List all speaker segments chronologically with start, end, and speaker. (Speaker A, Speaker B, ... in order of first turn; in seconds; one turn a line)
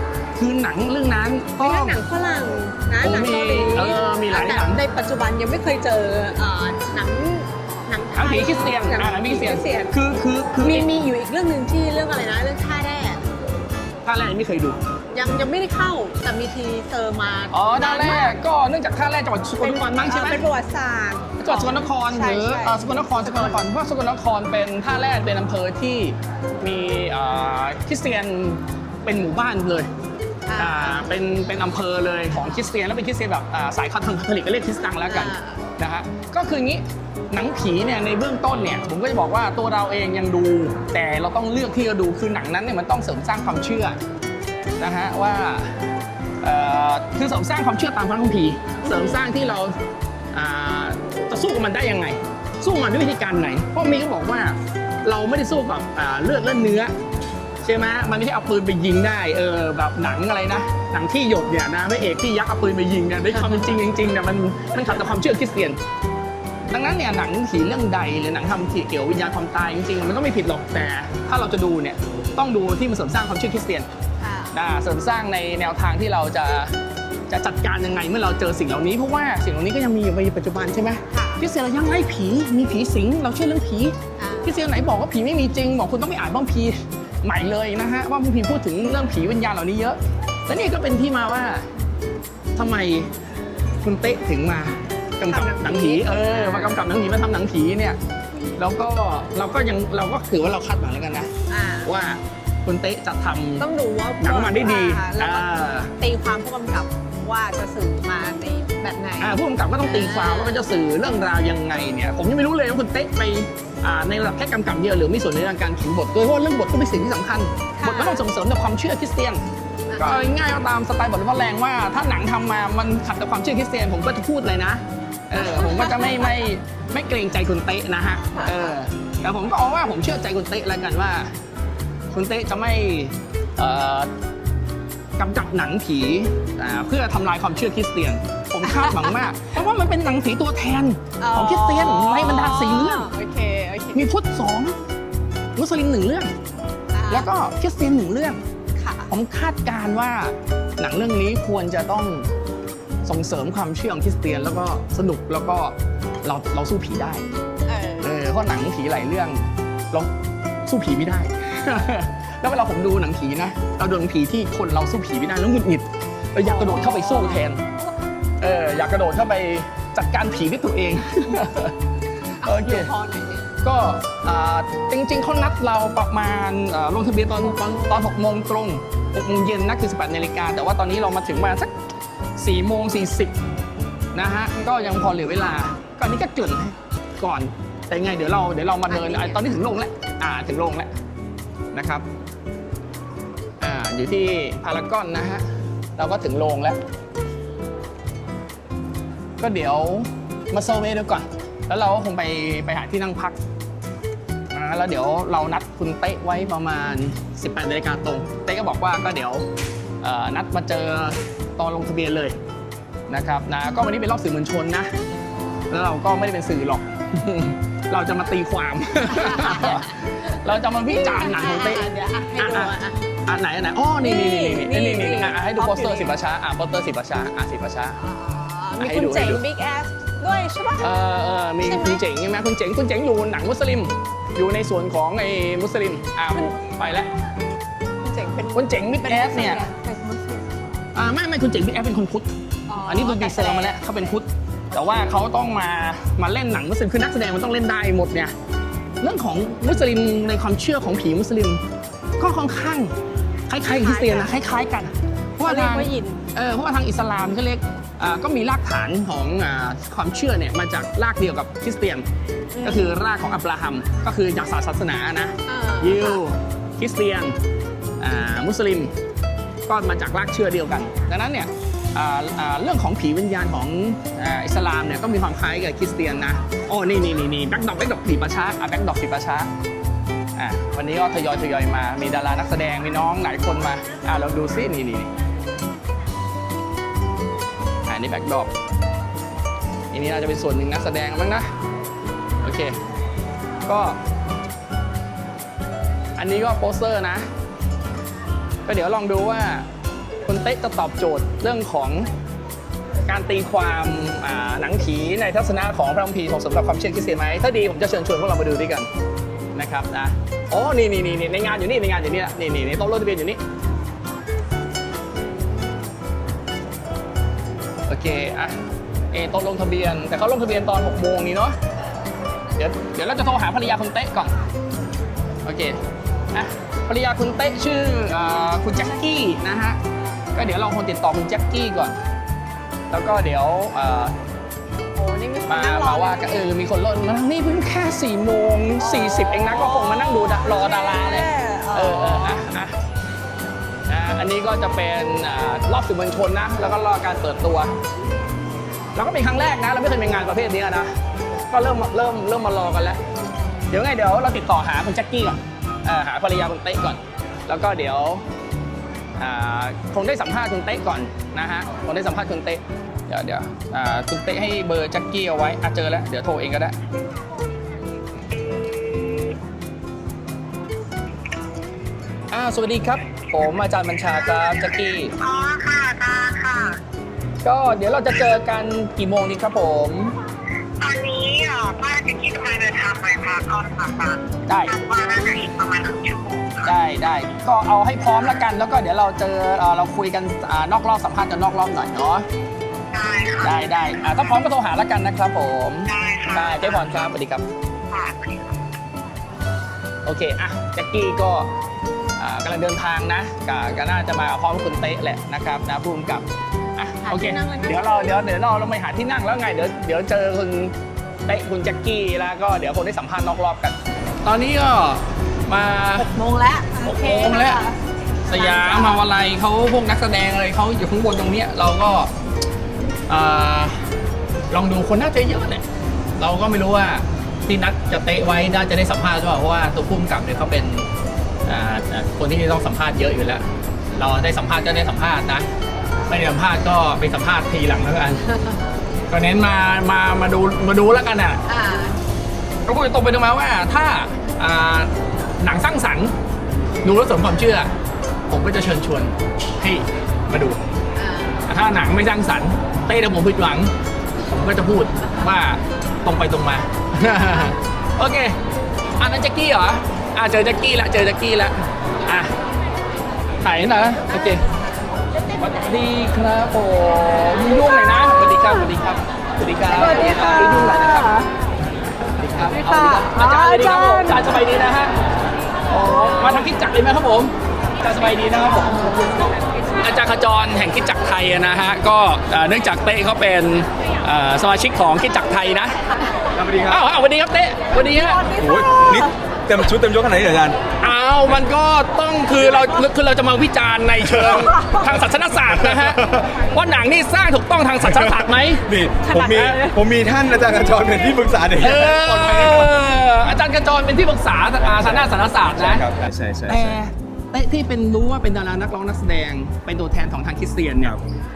Speaker A: 0.4-2.0
Speaker B: 1.6-9.9
Speaker A: 3.0-4.8
Speaker A: 8.2-10.9
Speaker B: 10.6-13.3
Speaker A: 14.1-14.8
Speaker B: 15.1-18.4
Speaker A: 17.5-20.4
Speaker B: 19.6-23.6
Speaker A: 21.4-29.9
Speaker B: 30.5-31.1
Speaker A: 30.6-44.0
Speaker B: 35.1-35.6
Speaker A: 44.8-45.8
Speaker A: 46.4-49.7
Speaker A: 50.3-56.9
Speaker A: 57.6-65.8
Speaker A: 66.7-73.9
Speaker B: 74.2-74.5
Speaker A: 74.5-76.8
Speaker A: 77.3-91.7
Speaker B: 81.1-81.4
Speaker B: 84.2-84.7
Speaker A: 92.6-93.1
Speaker A: 93.8-98.0
Speaker B: 95.3-96.8
Speaker A: 98.6-101.3
Speaker B: 101.5-101.9
Speaker A: 101.8-103.7
Speaker B: 103.6-105.5
Speaker A: 104.2-105.9
Speaker B: 106.0-110.7
Speaker A: 109.2-119.4
Speaker B: 117.8-118.2
Speaker B: 119.9-120.3
Speaker A: 120.0-131.3
Speaker B: 125.4-126.3
Speaker B: 128.3-128.7
Speaker A: 132.1-134.1
Speaker A: 135.2-143.1
Speaker B: 138.7-139.1
Speaker B: 141.2-144.1
Speaker A: 143.9-144.8
Speaker A: 145.6-146.3
Speaker B: 146.9-147.3
Speaker A: 147.1-148.4
Speaker B: 148.8-149.1
Speaker A: 149.1-152.3
Speaker A: 153.1-157.3
Speaker B: 157.7-158.2
Speaker A: 158.0-160.1
Speaker A: 160.7-167.6
Speaker B: 166.4-167.4
Speaker A: 168.4-171.7
Speaker B: 172.4-173.5
Speaker A: 172.4-172.9
Speaker A: 173.6-181.7
Speaker A: 182.4-183.3
Speaker A: 184.1-190.9
Speaker B: 188.9-189.5
Speaker A: 191.7-192.1
Speaker A: 193.6-195.5
Speaker A: 196.0-196.8
Speaker A: 199.4-203.4
Speaker A: 204.5-209.4
Speaker A: 210.0-212.4
Speaker A: 213.1-214.9
Speaker A: 215.7-222.7
Speaker B: 219.2-219.8
Speaker B: 220.9-223.0
Speaker A: 223.3-228.0
Speaker B: 224.0-226.2
Speaker B: 228.0-230.9
Speaker A: 228.8-229.4
Speaker A: 230.8-237.1
Speaker B: 231.6-232.0
Speaker B: 238.0-240.6
Speaker A: 238.5-239.6
Speaker A: 240.9-242.3
Speaker B: 242.7-243.9
Speaker A: 242.8-248.3
Speaker A: 249.0-251.6
Speaker A: 252.2-252.9
Speaker A: 253.5-262.1
Speaker B: 253.7-254.4
Speaker B: 255.4-256.2
Speaker B: 262.6-262.9
Speaker A: 262.6-267.4
Speaker B: 265.5-266.2
Speaker A: 268.0-268.9
Speaker A: 269.7-279.5
Speaker A: 280.4-285.1
Speaker A: 287.9-288.5
Speaker A: 289.9-291.5
Speaker A: 292.4-292.7
Speaker A: 293.7-294.0
Speaker A: 296.2-297.2
Speaker A: 298.7-299.7
Speaker A: 300.2-302.1
Speaker A: 303.1-308.9
Speaker A: 309.6-313.4
Speaker A: 317.9-318.6
Speaker A: 319.1-321.6
Speaker A: 322.6-324.3
Speaker A: 325.4-325.8
Speaker A: 326.3-329.8
Speaker A: 330.4-332.0
Speaker A: 332.9-334.1
Speaker B: 335.0-336.4
Speaker A: 335.5-342.8
Speaker B: 338.8-342.4
Speaker A: 343.9-347.7
Speaker A: 348.9-350.9
Speaker A: 351.5-353.0
Speaker A: 353.7-358.2
Speaker A: 359.2-366.8
Speaker A: 372.3-375.1
Speaker C: 375.2-376.8
Speaker A: 377.4-380.1
Speaker C: 380.8-386.7
Speaker A: 384.5-384.8
Speaker A: 386.6-392.2
Speaker C: 392.9-394.2
Speaker A: 393.4-397.4
Speaker C: 395.9-396.8
Speaker C: 397.9-398.5
Speaker A: 400.1-401.5
Speaker A: 402.2-410.7
Speaker B: 407.0-408.1
Speaker A: 411.3-416.1
Speaker B: 416.0-417.8
Speaker A: 416.8-417.6
Speaker A: 418.3-422.1
Speaker B: 418.3-419.0
Speaker A: 423.1-423.8
Speaker A: 424.5-425.6
Speaker A: 426.2-430.9
Speaker A: 431.5-433.4
Speaker A: 434.0-435.5
Speaker A: 436.1-438.2
Speaker A: 439.1-441.4
Speaker B: 441.5-442.0
Speaker A: 442.7-446.1
Speaker A: 446.8-447.7
Speaker A: 448.3-450.6
Speaker B: 451.0-451.4
Speaker A: 451.5-453.7
Speaker A: 454.3-458.4
Speaker A: 459.0-461.5
Speaker A: 462.1-462.3
Speaker A: 463.4-464.4
Speaker A: 465.3-471.1
Speaker B: 469.7-471.3
Speaker A: 472.1-474.9
Speaker B: 472.5-474.3
Speaker A: 475.7-478.8
Speaker A: 479.8-485.8
Speaker D: 486.3-486.8
Speaker A: 486.6-488.3
Speaker B: 487.8-489.1
Speaker D: 488.3-490.6
Speaker A: 490.8-498.6
Speaker D: 494.0-494.5
Speaker D: 495.5-496.3
Speaker D: 497.8-502.8
Speaker B: 499.1-499.8
Speaker A: 501.6-505.9
Speaker D: 504.6-506.8
Speaker A: 506.5-511.0